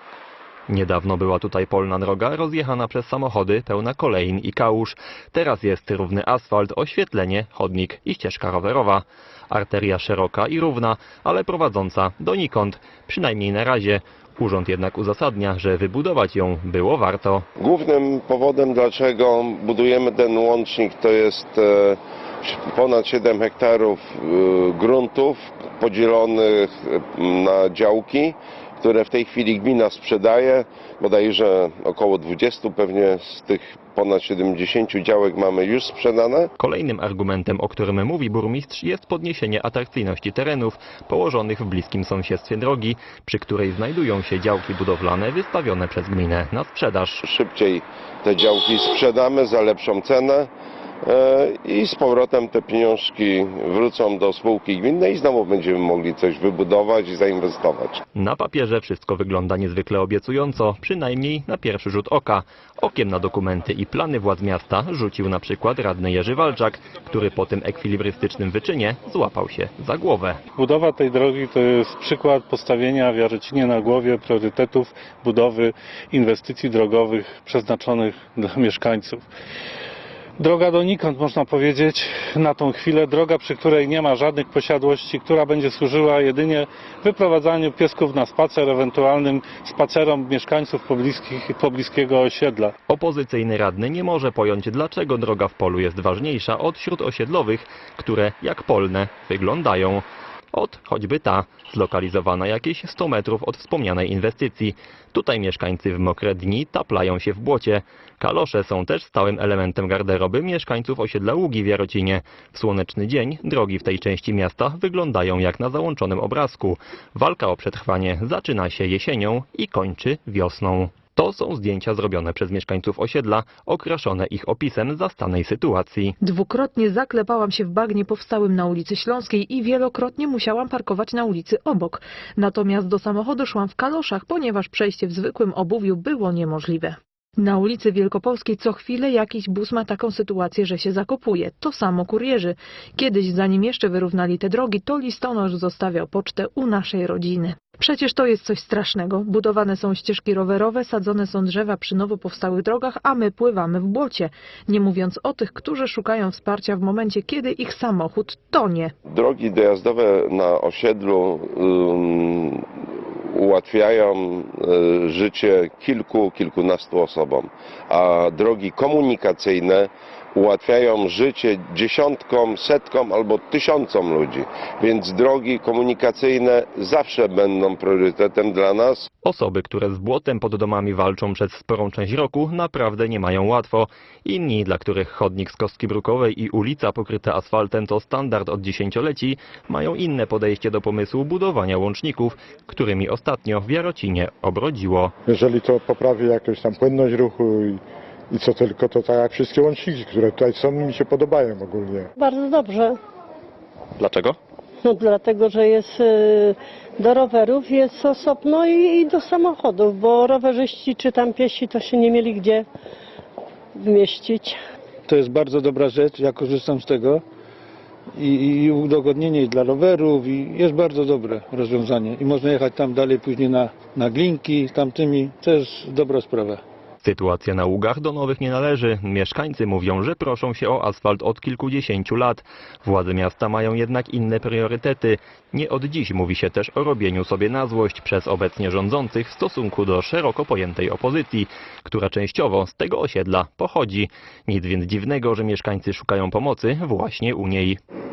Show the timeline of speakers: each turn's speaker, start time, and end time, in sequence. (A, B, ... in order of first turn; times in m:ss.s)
0:00.7-0:17.4 A
0:17.6-0:36.5 B
0:36.6-0:47.2 A
0:47.2-0:50.5 B
0:51.0-0:58.0 B
0:58.1-1:10.4 A
1:10.6-1:19.2 C
1:20.4-1:32.7 C
1:32.9-2:06.1 A
2:06.2-2:38.9 D
2:39.1-2:59.1 B
2:59.2-3:15.1 A
3:15.2-3:22.1 E
3:22.2-3:23.0 F
3:24.0-3:24.4 A
3:24.8-3:32.6 F
3:33.7-3:34.6 F
3:35.1-3:37.2 G
3:38.1-3:46.6 G
3:47.0-4:07.8 A